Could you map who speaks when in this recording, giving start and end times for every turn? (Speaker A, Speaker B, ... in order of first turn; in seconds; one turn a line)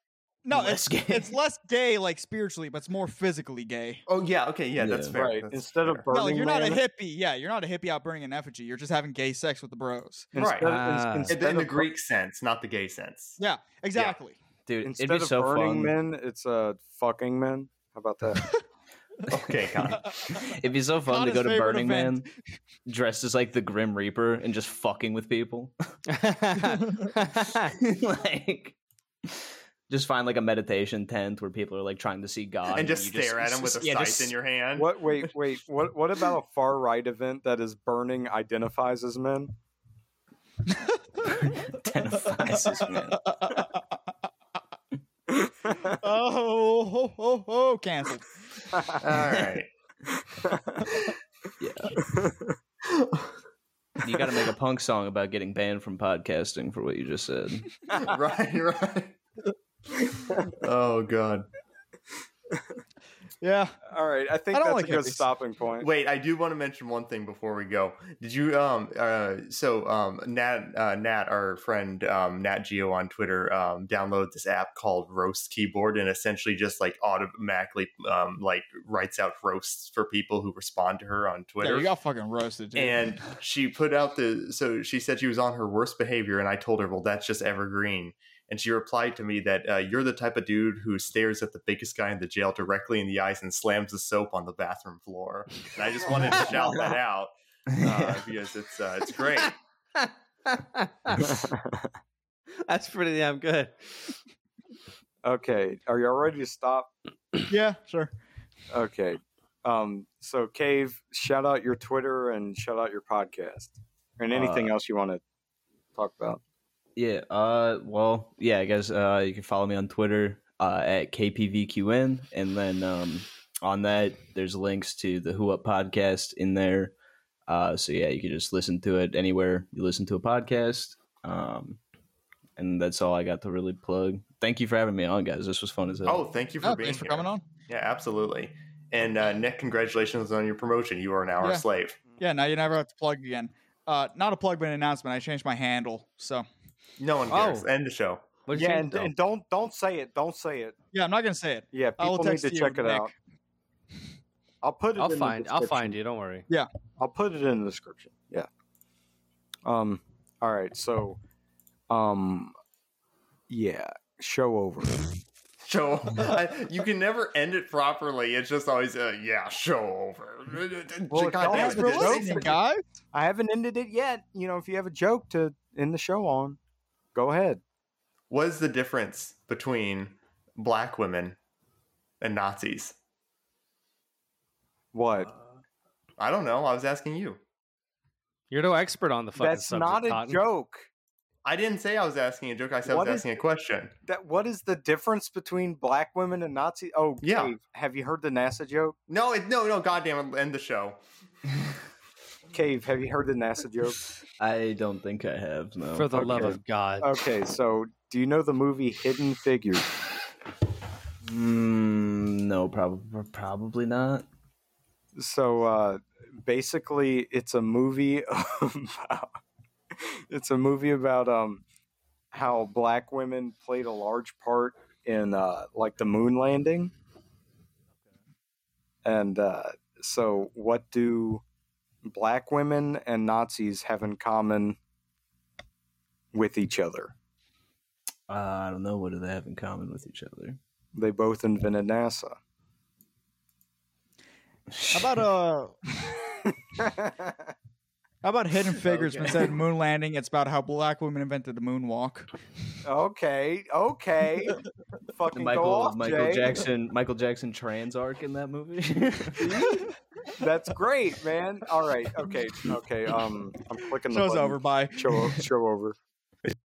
Speaker A: 0.5-4.0
Speaker B: 0.5-1.4
Speaker C: 4.1-6.0
Speaker B: 4.8-5.2
Speaker D: 5.2-6.8
Speaker A: 6.1-10.3
Speaker D: 10.3-11.9
Speaker C: 10.4-13.4
Speaker E: 10.6-11.3
Speaker A: 13.4-14.4
Speaker B: 14.7-15.9
Speaker D: 14.8-18.5
Speaker C: 19.3-20.2
Speaker B: 20.1-22.3
Speaker A: 21.1-22.3
Speaker B: 22.9-25.7
Speaker E: 26.1-27.7
Speaker B: 27.8-34.4
Speaker C: 32.7-34.9
Speaker D: 34.8-39.5
Speaker A: 40.9-41.5
Speaker B: 41.2-43.6
Speaker A: 42.3-43.8
Speaker D: 45.3-45.8
Speaker A: 45.8-48.3
Speaker C: 49.0-49.7
Speaker B: 49.2-49.5
Speaker D: 50.5-50.8
Speaker B: 51.6-52.0
Speaker D: 52.0-52.5
Speaker C: 52.9-53.3
Speaker B: 54.0-57.8
Speaker C: 57.9-59.2
Speaker C: 60.0-61.5
Speaker A: 63.4-63.8
Speaker D: 63.9-65.9
Speaker A: 64.5-65.3
Speaker C: 65.8-81.9
Speaker A: 81.6-83.0
Speaker C: 82.8-99.6
Speaker D: 96.5-96.8
Speaker B: 97.7-98.2
Speaker E: 100.0-101.3
Speaker E: 102.6-104.1
Speaker D: 105.2-106.9
Speaker A: 107.5-108.1
Speaker D: 108.7-115.2
Speaker B: 114.3-114.7
Speaker D: 116.0-116.4
Speaker B: 117.0-126.9
Speaker B: 127.5-131.8
Speaker B: 132.6-136.3
Speaker C: 136.1-142.0
Speaker A: 136.6-137.4
Speaker A: 142.2-146.5
Speaker C: 147.0-148.3
Speaker E: 147.3-147.7
Speaker E: 148.5-149.1
Speaker D: 148.5-150.8
Speaker A: 150.9-153.1
Speaker D: 151.7-153.1
Speaker D: 154.6-156.0
Speaker E: 155.0-156.5
Speaker D: 157.0-158.5
Speaker D: 159.7-161.2
Speaker D: 161.9-162.5
Speaker D: 163.5-165.1
Speaker C: 165.6-172.6
Speaker D: 171.1-172.6
Speaker A: 171.4-172.8
Speaker D: 173.1-176.6
Speaker D: 177.2-177.6
Speaker C: 178.3-181.4
Speaker C: 182.2-182.9
Speaker D: 184.9-185.3
Speaker C: 186.2-187.4
Speaker E: 188.5-190.4
Speaker D: 189.4-190.9
Speaker C: 191.4-193.9
Speaker D: 192.9-193.3
Speaker D: 194.1-199.0
Speaker C: 197.2-197.5
Speaker C: 199.1-201.0
Speaker D: 202.5-204.0
Speaker B: 204.4-206.6
Speaker E: 205.9-207.1
Speaker D: 206.1-209.9
Speaker B: 211.2-214.3
Speaker D: 215.2-219.3
Speaker D: 220.3-221.6
Speaker D: 222.3-226.9
Speaker D: 229.1-231.4
Speaker D: 232.0-234.8
Speaker D: 236.3-237.1
Speaker B: 238.3-240.6
Speaker D: 240.9-242.4
Speaker B: 244.7-245.2
Speaker A: 244.9-245.7
Speaker A: 248.2-252.3
Speaker D: 248.9-249.5
Speaker D: 252.8-254.6
Speaker D: 255.1-256.6
Speaker B: 255.3-259.7
Speaker D: 259.4-259.9
Speaker D: 260.4-266.0
Speaker A: 264.1-265.1